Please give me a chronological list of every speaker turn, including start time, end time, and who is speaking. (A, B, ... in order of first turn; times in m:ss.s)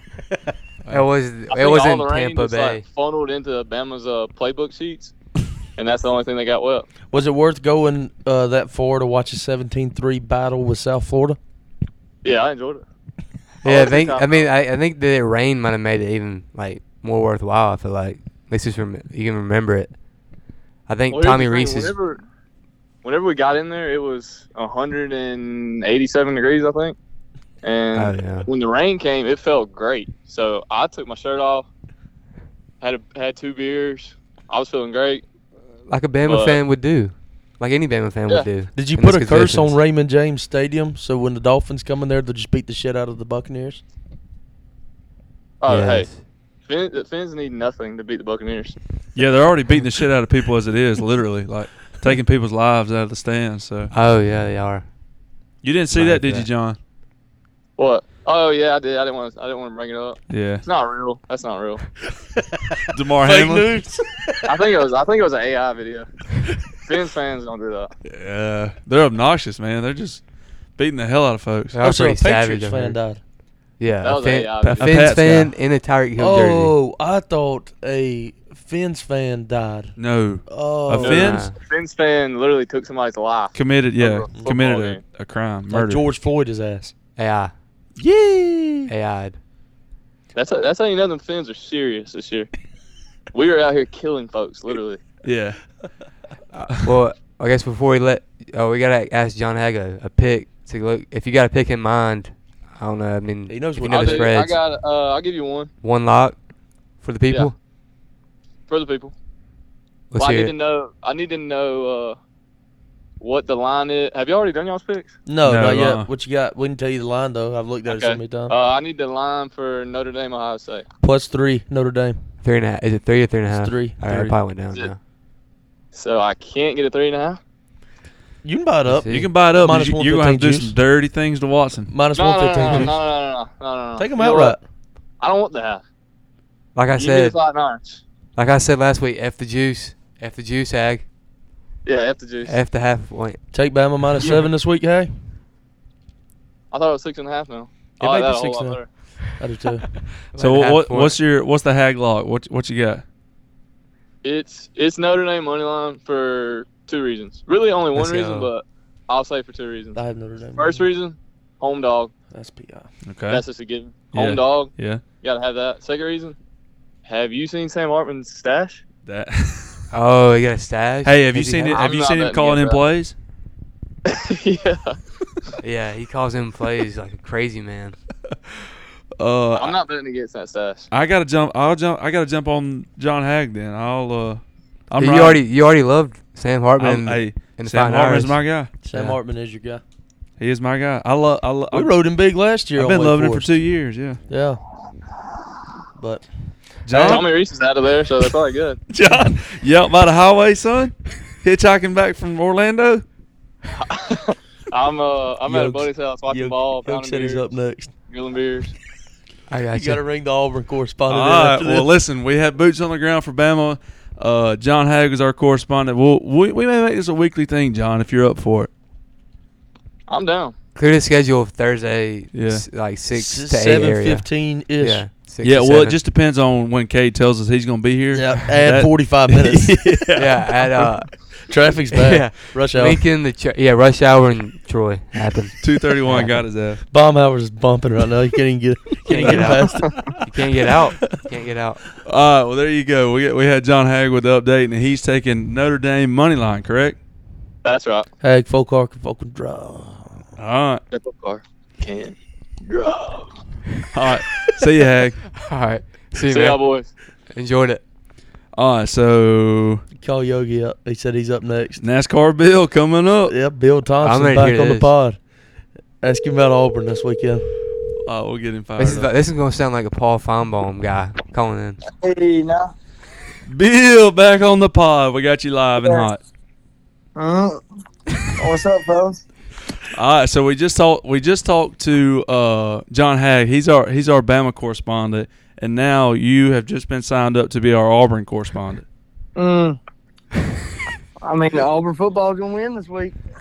0:00.9-0:02.8 A
0:01.5-0:05.1 B
0:05.8-0:06.9 B
0:07.1-0:11.4 C
0:12.2-0:12.8 B
0:13.6-0:14.5 B
0:13.6-0:19.9 A
0:20.9-0:22.0 A
0:21.1-0:22.2 B
0:23.0-0:27.0 B
0:27.6-0:31.7 B
0:27.9-0:28.5 A
0:32.8-0:35.2 B
0:35.9-0:39.8 A
0:36.2-0:36.6 B
0:38.7-0:43.8 C
0:45.6-0:46.1 B
0:45.7-0:46.2 A
0:46.6-0:48.8 B
0:49.1-0:53.9 D
0:53.9-0:54.8 A
0:55.6-0:56.8 D
0:55.9-0:56.5 A
0:57.8-1:01.8 B
1:00.3-1:00.6 D
1:02.9-1:03.7 D
1:03.2-1:04.5 C
1:04.4-1:06.1 B
1:06.6-1:07.9 B
1:08.0-1:10.2 D
1:10.8-1:11.8 D
1:11.7-1:13.0 A
1:11.8-1:13.2 C
1:13.8-1:16.7 A
1:14.0-1:15.1 B
1:14.6-1:15.5 D
1:16.2-1:19.9 C
1:20.0-1:21.5 D
1:20.4-1:21.4 C
1:21.0-1:25.0 B
1:21.1-1:21.5 A
1:23.5-1:26.0 D
1:25.7-1:26.9 C
1:27.2-1:27.5 A
1:28.0-1:28.9 C
1:28.9-1:29.4 A
1:30.4-1:32.5 B
1:33.3-1:35.0 B
1:35.2-1:35.6 D
1:36.5-1:44.6 A
1:43.5-1:44.3 C
1:43.8-1:45.7 B
1:45.8-1:46.4 A
1:47.0-1:47.5 A
1:48.7-1:49.1 B
1:50.1-1:50.5 A
1:50.2-1:52.2 B
1:53.2-1:55.1 B
1:55.3-1:58.5 C
1:55.4-1:56.1 D
1:57.9-2:00.8 B
2:01.0-2:02.2 C
2:02.4-2:05.0 A
2:03.5-2:04.4 C
2:05.9-2:07.4 B
2:08.4-2:10.7 C
2:08.8-2:09.3 A
2:09.1-2:11.9 D
2:11.9-2:13.0 C
2:12.1-2:14.6 B
2:14.0-2:14.6 C
2:15.2-2:15.8 B
2:16.7-2:17.4 A
2:16.9-2:18.0 B
2:18.4-2:21.0 A
2:21.8-2:22.6 B
2:22.4-2:23.4 A
2:23.5-2:25.1 C
2:26.7-2:28.9 B
2:28.0-2:29.9 C
2:30.3-2:31.2 A
2:30.4-2:33.0 D
2:34.2-2:40.0 B
2:37.9-2:38.5 A
2:39.9-2:40.8 C
2:40.5-2:42.1 B
2:42.3-2:42.9 C
2:43.0-2:43.4 D
2:43.3-2:46.4 B
2:44.1-2:45.0 D
2:47.0-2:48.8 B
2:49.0-2:49.9 D
2:49.9-2:51.8 A
2:51.0-2:53.1 D
2:51.7-2:52.8 B
2:54.0-2:55.0 B
2:55.6-2:58.0 A
2:59.2-2:59.8 D
2:59.5-3:00.9 B
3:00.9-3:05.4 D
3:05.0-3:08.4 A
3:06.8-3:08.7 D
3:08.8-3:09.8 C
3:10.4-3:11.9 D
3:11.7-3:13.5 C
3:12.8-3:14.2 D
3:14.3-3:14.6 C
3:16.0-3:16.2 C
3:16.8-3:17.3 D
3:16.9-3:18.8 B
3:18.9-3:23.0 D
3:23.7-3:27.4 B
3:25.4-3:27.9 C
3:28.1-3:28.7 B
3:29.5-3:30.0 A
3:29.7-3:31.9 C
3:31.1-3:38.7 D
3:40.1-3:40.5 B
3:40.8-3:46.0 A
3:42.3-3:42.6 D
3:43.1-3:45.0 C
3:45.4-3:50.9 D
3:48.1-3:49.9 C
3:50.1-3:51.2 A
3:51.4-3:53.0 C
3:51.9-3:56.4 A
3:55.6-3:56.8 D
3:56.9-4:00.2 C
3:59.0-4:01.8 A
4:02.0-4:07.0 D
4:07.6-4:08.1 B
4:08.2-4:10.3 C
4:10.4-4:10.8 D
4:10.9-4:13.3 B
4:13.9-4:15.2 D
4:15.4-4:16.6 A
4:16.2-4:16.9 B
4:17.3-4:17.8 A
4:18.5-4:19.8 D
4:20.0-4:21.8 C
4:21.8-4:23.3 D
4:23.3-4:25.2 C
4:24.0-4:24.9 A
4:26.0-4:27.4 C
4:28.0-4:29.1 D
4:28.8-4:31.8 A
4:31.9-4:32.7 E
4:33.4-4:36.2 D
4:35.8-4:36.1 E
4:37.2-4:37.6 E
4:38.4-4:39.2 E
4:39.9-4:48.8 D
4:49.4-4:49.8 E
4:51.2-4:53.2 E